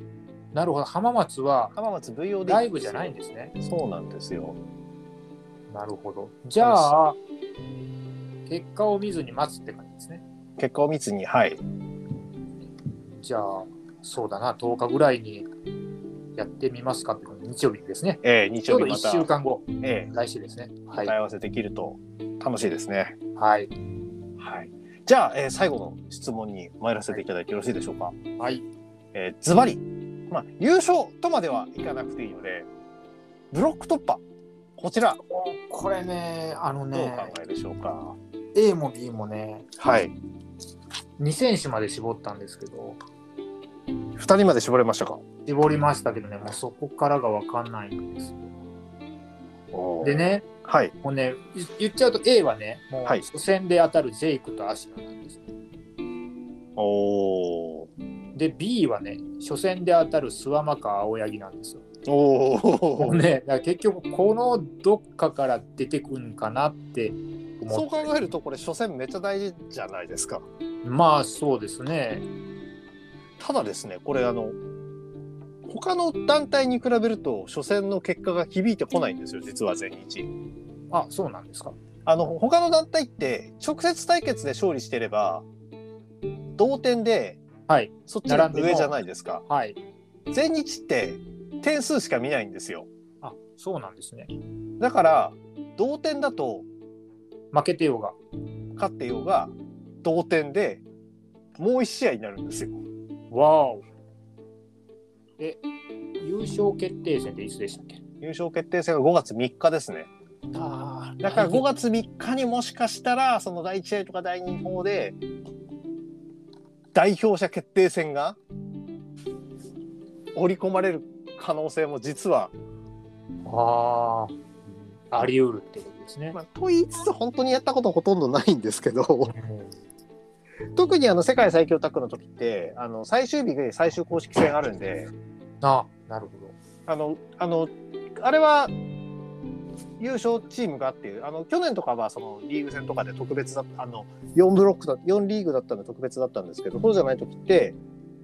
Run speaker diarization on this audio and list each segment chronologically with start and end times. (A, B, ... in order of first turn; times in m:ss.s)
0:00.5-0:01.8 A
0:01.8-0:04.6 B
0:02.4-0:03.5 A
0:05.7-0:07.2 A
0:06.6-0:06.9 B
0:08.5-0:10.2 A
0:10.6-0:11.6 B
0:13.2-0:15.5 A
0:16.4-0:21.1 A
0:18.2-0:19.3 B
0:19.8-0:20.1 B
0:21.0-0:23.2 B
0:23.4-0:23.7 A
0:24.4-0:28.2 B
0:28.4-0:28.6 A
0:29.1-0:32.7 B
0:33.5-0:34.2 B
0:34.8-0:35.2 B
0:35.3-0:37.3 A
0:36.9-0:38.2 B
0:38.6-0:39.7 A
0:39.8-0:40.2 B
0:41.2-0:43.0 A
0:44.2-0:45.2 B
0:45.4-0:48.5 A
0:49.7-0:50.9 B
0:50.0-0:50.5 A
0:51.0-0:55.4 A
0:56.8-0:57.9 B
0:58.4-1:01.8 A
1:02.1-1:03.2 B
1:03.0-1:08.3 A
1:07.7-1:10.4 B
1:10.8-1:12.3 A
1:13.4-1:14.6 B
1:15.6-1:20.3 B
1:20.9-1:21.8 A
1:22.1-1:25.4 B
1:26.6-1:27.4 B
1:27.7-1:28.9 A
1:28.1-1:29.4 B
1:29.5-1:29.8 A
1:30.3-1:32.9 B
1:33.2-1:34.3 A
1:34.8-1:36.7 B
1:37.5-1:38.2 A
1:38.8-1:40.8 B
1:41.6-1:42.8 B
1:43.3-1:43.8 A
1:46.2-1:48.0 A
1:48.2-1:50.1 B
1:50.5-1:51.7 A
1:51.2-1:55.2 B
1:57.0-1:58.4 B
2:00.4-2:02.5 B
2:03.4-2:06.4 A
2:06.3-2:09.3 B
2:09.3-2:09.7 A
2:10.8-2:15.1 B
2:15.6-2:16.6 A
2:16.9-2:18.7 B
2:20.0-2:27.8 B